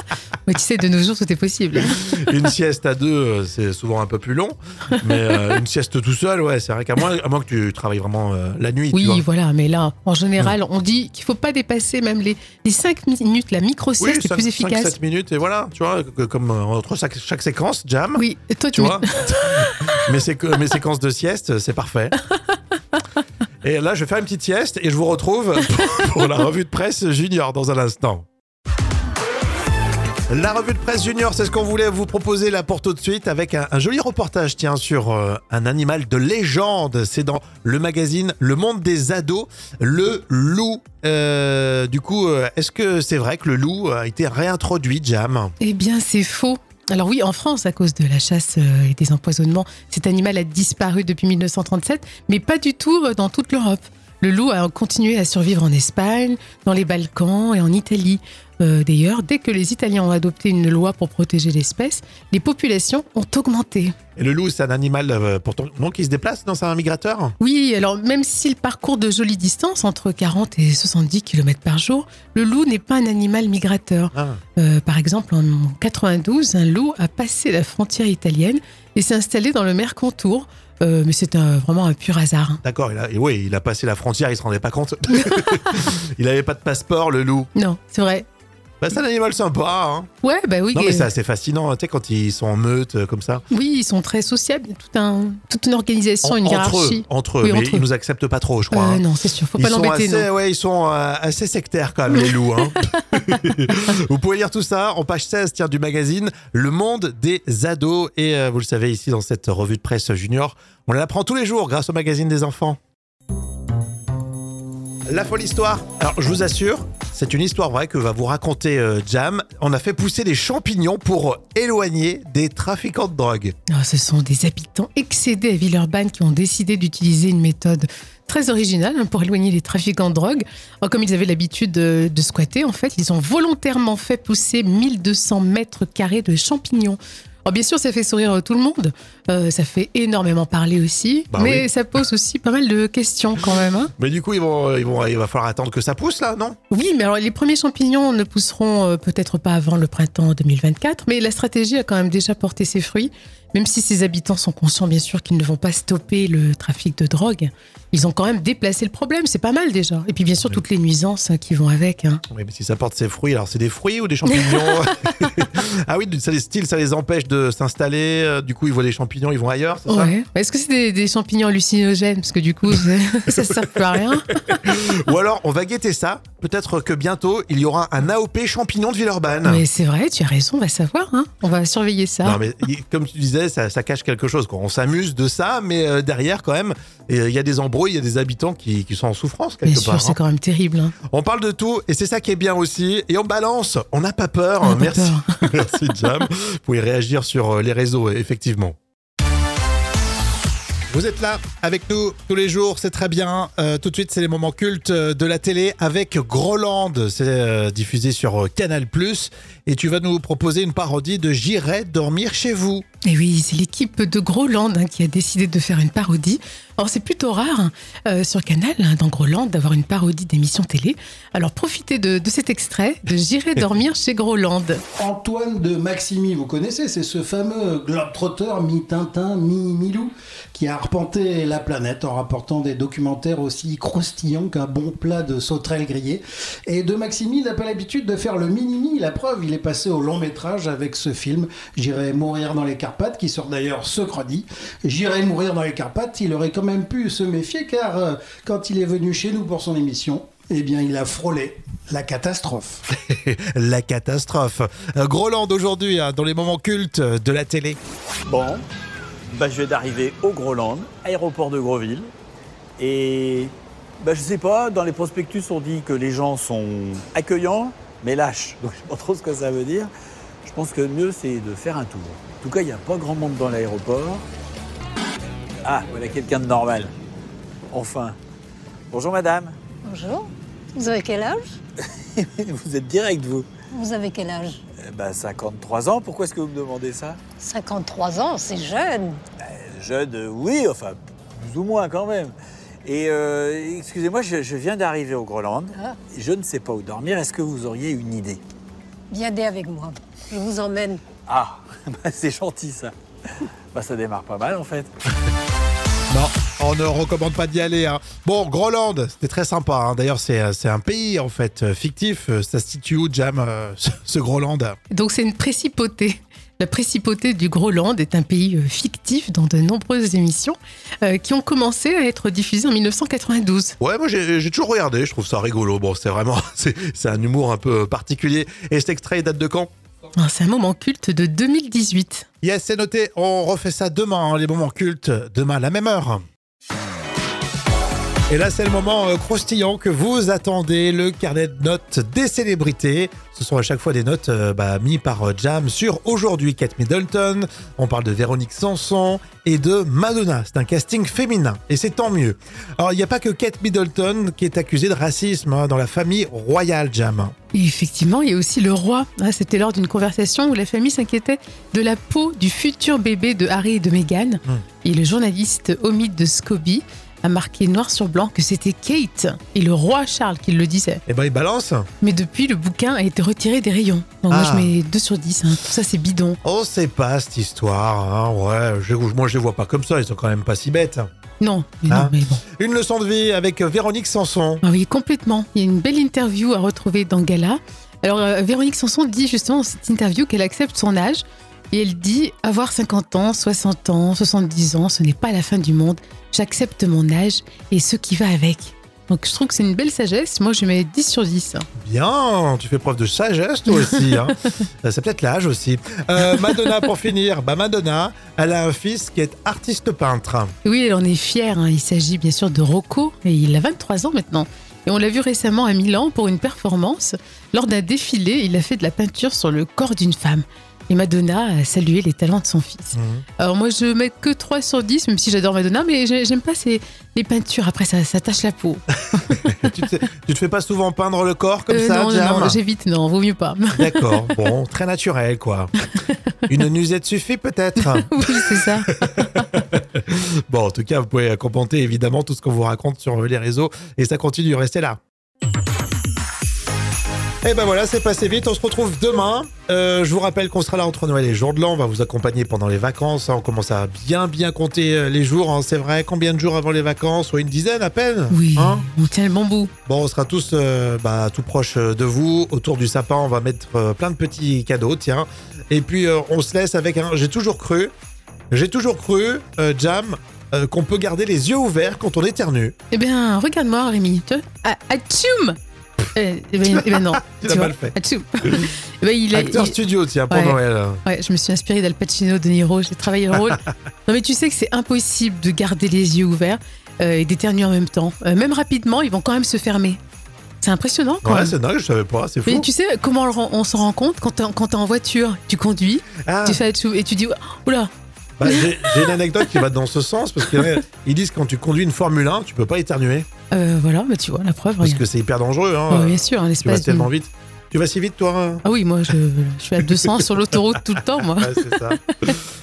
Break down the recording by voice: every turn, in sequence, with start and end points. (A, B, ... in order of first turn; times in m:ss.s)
0:00.4-0:02.0 A
0:01.8-0:09.2 B
0:08.9-0:14.9 A
0:14.0-0:22.1 B
0:18.2-0:19.7 A
0:23.6-0:28.2 B
0:30.3-0:45.5 B
0:45.6-1:03.9 A
1:04.2-1:07.3 B
1:07.4-1:22.6 A
1:14.1-1:14.4 B
1:22.6-1:27.5 B
1:27.5-1:28.2 A
1:28.8-1:30.1 B
1:30.2-1:31.1 A
1:30.7-1:33.4 B
1:33.5-1:37.8 A
1:36.2-1:39.0 B
1:38.7-1:40.3 A
1:39.5-1:52.8 B
1:42.8-1:43.2 A
1:55.1-2:03.5 B
2:03.7-2:23.9 A
2:21.3-2:21.7 B
2:24.0-2:26.6 B
2:26.7-2:42.2 A
2:42.3-2:50.1 B
2:44.3-2:45.3 A
2:49.9-2:54.4 A
2:54.4-2:59.6 B
2:59.4-3:02.4 A
3:02.2-3:10.2 B
3:09.6-3:10.9 A
3:11.1-3:18.8 B
3:14.6-3:15.4 A
3:20.9-3:32.8 B
3:33.0-3:44.8 A
3:45.0-4:12.8 C
4:12.9-4:17.8 B
4:18.3-4:18.6 D
4:19.3-4:22.1 D
4:22.8-4:29.9 D
4:30.5-4:34.2 D
4:35.6-4:36.9 D
4:37.7-4:38.1 D
4:38.9-4:39.5 D
4:39.8-4:41.6 E
4:42.6-4:43.5 D
4:43.7-4:44.6 E
4:44.9-4:47.2 D
4:47.4-4:49.2 E
4:49.7-4:52.3 D
4:52.8-4:58.4 D
4:59.1-5:01.0 E
5:01.3-5:02.9 D
5:03.7-5:04.9 D
5:06.1-5:14.8 B
5:14.9-5:23.7 A
5:23.8-5:29.7 B
5:30.2-5:32.2 A
5:32.4-5:36.2 B
5:38.3-5:57.3 B
5:57.5-6:11.0 A
6:11.1-6:11.9 B
6:12.0-6:16.4 A
6:14.3-6:14.7 B
6:16.4-6:21.0 B
6:21.4-6:22.4 A
6:21.9-6:24.6 B
6:24.6-6:41.6 A
6:41.8-6:50.5 B
6:43.7-6:44.5 A
6:50.6-7:09.4 A
7:02.9-7:03.2 B
7:09.5-7:12.6 B
7:11.7-7:14.3 A
7:13.7-7:15.7 B
7:16.5-7:25.0 B
7:17.8-7:18.9 A
7:27.4-7:38.8 B
7:38.3-7:39.7 A
7:39.8-7:47.9 B
7:48.5-7:52.7 B
7:52.9-7:55.6 A
7:56.1-8:10.0 A
7:56.6-7:57.9 B
7:59.3-8:01.0 B
8:10.6-8:11.6 A
8:11.2-8:12.7 B
8:12.4-8:17.9 A
8:16.2-8:16.6 B
8:18.4-8:23.3 B
8:18.4-8:18.9 A
8:23.5-8:25.0 A
8:24.8-8:28.6 B
8:25.9-8:27.1 A
8:28.6-8:32.3 A
8:31.4-8:32.0 B